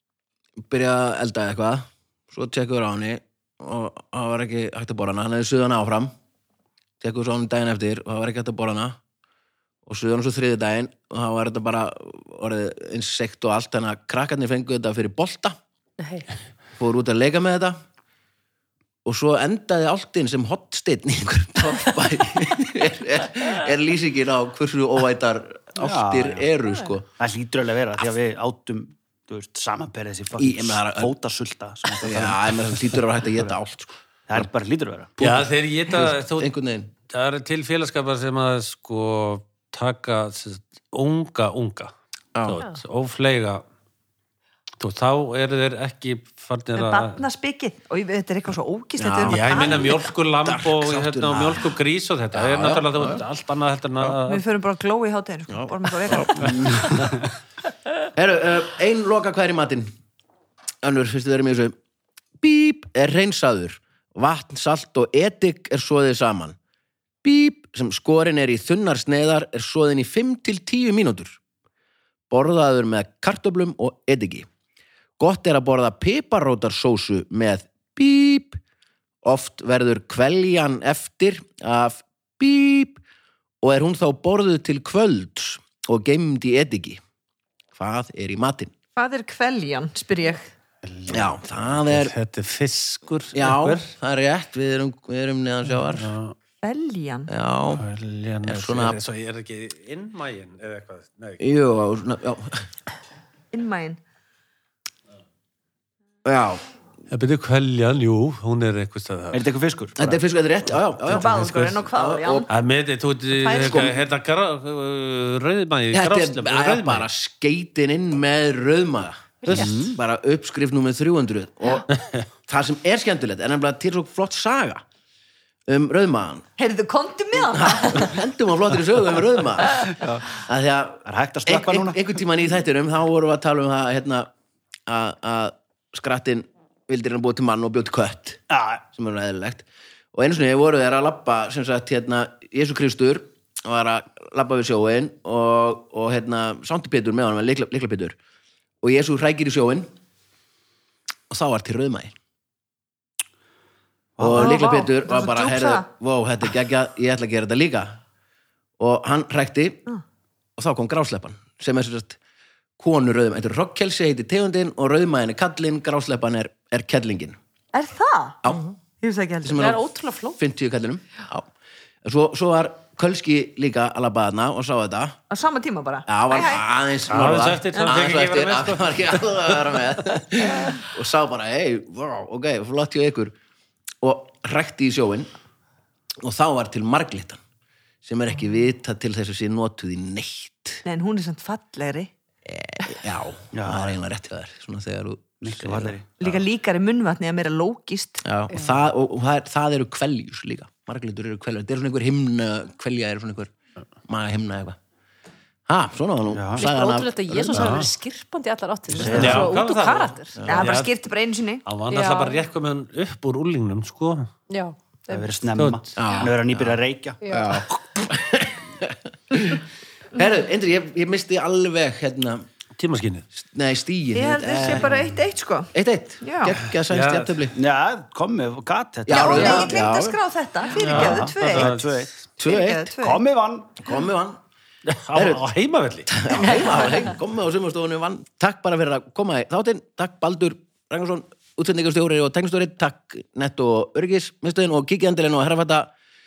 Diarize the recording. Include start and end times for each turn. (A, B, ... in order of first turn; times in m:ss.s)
0:00.7-0:06.1 A
0:07.0-0:09.0 A
0:09.8-0:15.6 A
0:16.0-0:16.3 B
0:16.8-0:17.8 A
0:19.0-0:27.1 A
0:25.8-0:26.5 C
0:27.2-0:33.5 C
0:30.4-0:31.1 A
0:32.0-0:34.0 A
0:34.3-0:35.1 C
0:35.2-0:36.9 A
0:35.2-0:36.5 D
0:37.1-0:41.9 D
0:42.3-0:42.6 A
0:42.4-0:43.6 D
0:44.8-0:47.2 D
0:46.8-0:50.1 E
0:49.0-0:51.7 A
0:49.2-0:54.4 D
0:52.3-0:53.2 A
0:54.3-0:57.0 E
0:55.5-0:57.1 A
0:56.7-0:57.1 C
0:58.1-0:59.9 A
1:00.8-1:01.7 A
1:02.4-1:06.6 A
1:07.2-1:11.4 A
1:12.3-1:14.5 A
1:15.2-1:18.6 A
1:19.2-1:23.0 A
1:23.6-1:27.0 A
1:27.7-1:28.7 A
1:29.0-1:30.5 E
1:30.8-1:33.9 D
1:31.1-1:32.1 A
1:33.3-1:36.1 A
1:35.8-1:36.3 D
1:36.6-1:37.3 E
1:37.3-1:37.8 A
1:37.8-1:41.4 D
1:38.4-1:39.0 A
1:41.4-1:42.7 A
1:43.5-1:44.0 E
1:46.2-1:46.6 A
1:47.1-1:49.4 D
1:49.3-1:50.2 C
1:50.0-1:52.5 A
1:51.0-1:52.5 E
1:51.1-1:51.8 D
1:52.5-1:57.1 D
1:53.3-1:53.9 E
1:55.9-2:01.9 A
1:59.4-1:59.8 D
1:59.5-2:00.0 C
2:02.5-2:04.8 A
2:05.7-2:06.4 A
2:06.6-2:08.2 E
2:07.4-2:14.3 A
2:10.0-2:10.2 C
2:11.0-2:12.0 C
2:14.9-2:18.4 A
2:18.5-2:18.8 C
2:18.9-2:28.2 A
2:28.8-2:29.9 A
2:31.3-2:32.1 A
2:34.2-2:34.6 C
2:34.2-2:38.0 A
2:34.3-2:35.9 E
2:38.8-2:39.9 A
2:40.6-2:42.2 A
2:42.8-2:47.4 A
2:47.7-2:48.4 E
2:48.5-2:48.8 B
2:49.0-2:49.7 E
2:49.4-2:51.5 A
2:49.6-2:50.4 B
2:52.0-2:55.2 A
2:55.3-2:56.6 E
2:56.1-3:03.3 A
2:57.1-2:59.8 D
3:04.0-3:05.3 A
3:06.2-3:07.4 A
3:08.0-3:10.8 A
3:10.8-3:12.1 E
3:12.4-3:16.0 A
3:13.5-3:14.0 C
3:15.4-3:16.1 C
3:16.2-3:18.2 E
3:18.2-3:23.5 A
3:18.5-3:18.8 B
3:24.1-3:24.8 A
3:25.7-3:27.8 A
3:26.3-3:26.6 C
3:26.6-3:30.4 B
3:27.5-3:27.9 D
3:29.0-3:29.5 C
3:29.0-3:30.9 D
3:29.0-3:29.5 A
3:30.4-3:30.8 A
3:30.5-3:31.6 E
3:31.6-3:34.3 D
3:31.9-3:32.4 B
3:34.5-3:35.3 B
3:35.1-3:37.2 C
3:35.6-3:36.0 D
3:35.9-3:42.4 A
3:37.2-3:37.6 B
3:42.8-3:43.2 D
3:43.3-3:45.1 A
3:44.1-3:46.6 E
3:45.7-3:47.6 A
3:46.9-3:47.3 D
3:47.5-3:49.8 C
3:49.0-3:50.2 A
3:49.1-3:51.8 E
3:50.8-3:51.9 D
3:50.9-3:52.3 C
3:52.4-3:52.9 A
3:52.4-3:53.2 E
3:53.0-3:53.8 C
3:53.8-3:54.4 A
3:54.9-3:56.5 D
3:55.1-3:55.5 A
3:56.1-4:05.9 A
3:56.4-3:57.1 B